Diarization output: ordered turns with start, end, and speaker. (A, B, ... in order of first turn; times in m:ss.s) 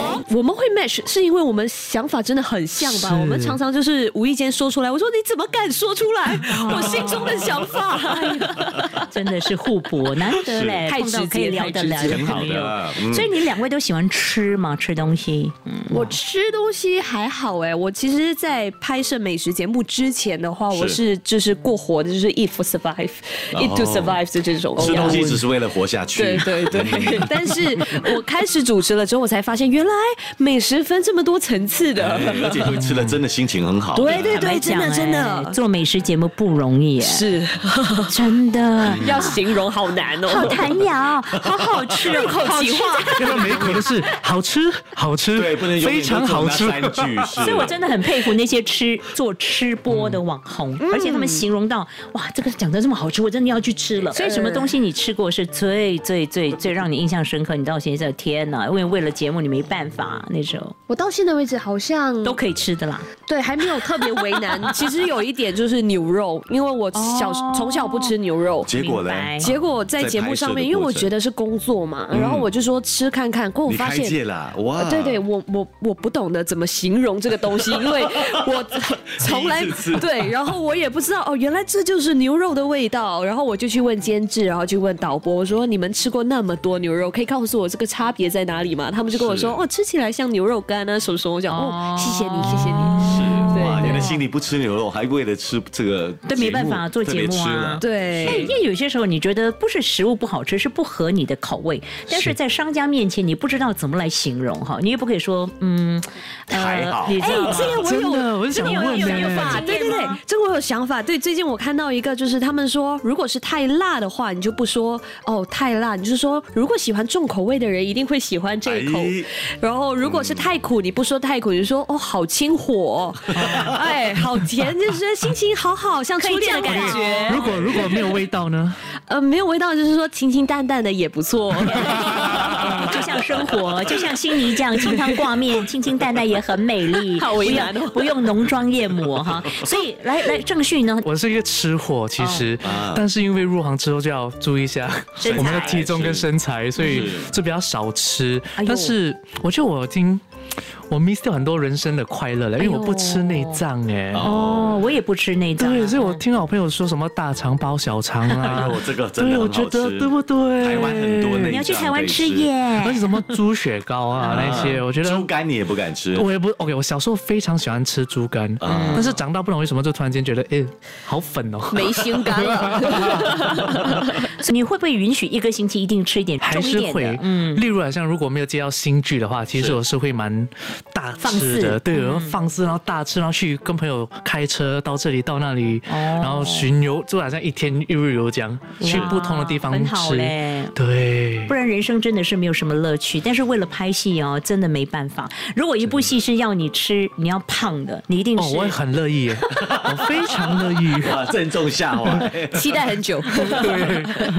0:00.2-0:08.9 A
0:02.8-0:03.6 B
0:06.6-0:07.3 C
0:08.9-0:16.1 C
0:10.5-0:10.8 D
0:10.8-0:12.6 A
0:12.0-0:13.3 D
0:15.9-0:25.4 A
0:20.7-0:21.0 D
0:23.5-0:24.2 D
0:24.8-0:27.5 D
0:26.1-0:32.8 A
0:32.0-0:34.4 D
0:33.9-0:35.6 A
0:34.3-0:37.2 C
0:37.0-0:38.1 A
0:38.1-0:39.4 C
0:38.8-0:40.8 A
0:40.2-0:43.6 C
0:41.4-0:42.1 D
0:42.0-0:43.9 A
0:43.2-0:47.4 B
0:45.3-0:47.8 D
0:47.4-1:00.8 C
0:49.9-0:50.2 B
0:50.8-0:51.4 A
0:54.1-0:54.7 A
1:00.9-1:02.4 A
1:02.2-1:03.1 C
1:03.2-1:08.7 A
1:06.9-1:08.1 C
1:08.6-1:11.1 D
1:08.7-1:09.5 C
1:09.4-1:14.2 A
1:12.1-1:12.5 D
1:13.7-1:15.2 D
1:14.8-1:34.1 A
1:19.2-1:20.1 D
1:29.1-1:29.6 D
1:31.5-1:34.1 C
1:33.0-1:38.5 D
1:36.2-1:47.9 C
1:37.8-1:38.5 A
1:42.1-1:42.3 B
1:46.5-1:47.8 D
1:47.2-2:08.2 A
1:47.8-1:49.6 B
1:48.5-1:50.2 C
1:58.6-1:59.3 D
2:00.0-2:00.5 D
2:06.2-2:07.6 C
2:06.7-2:08.8 B
2:09.1-2:13.0 A
2:12.5-2:21.0 C
2:14.8-2:15.1 A
2:16.9-2:18.2 A
2:21.0-2:30.2 B
2:22.2-2:22.5 C
2:22.6-2:23.0 D
2:25.2-2:25.9 C
2:25.3-2:27.3 D
2:28.6-2:29.0 C
2:30.9-2:34.3 B
2:32.6-2:33.6 C
2:34.1-2:34.9 D
2:34.2-2:36.2 C
2:35.6-2:41.6 B
2:38.4-2:42.5 D
2:41.4-2:43.3 C
2:42.8-2:45.3 B
2:44.2-2:44.8 C
2:44.3-2:46.3 D
2:46.1-2:53.2 B
2:48.6-2:49.2 D
2:48.6-2:49.2 C
2:51.7-2:54.2 A
2:54.2-2:57.6 C
2:56.4-3:11.5 B
2:59.5-2:59.8 D
3:01.2-3:01.8 A
3:01.9-3:02.4 C
3:05.9-3:06.7 C
3:08.8-3:10.7 C
3:08.9-3:09.1 D
3:11.5-3:18.8 C
3:18.4-3:21.2 B
3:19.5-3:22.8 D
3:22.5-3:24.2 A
3:23.4-3:24.3 B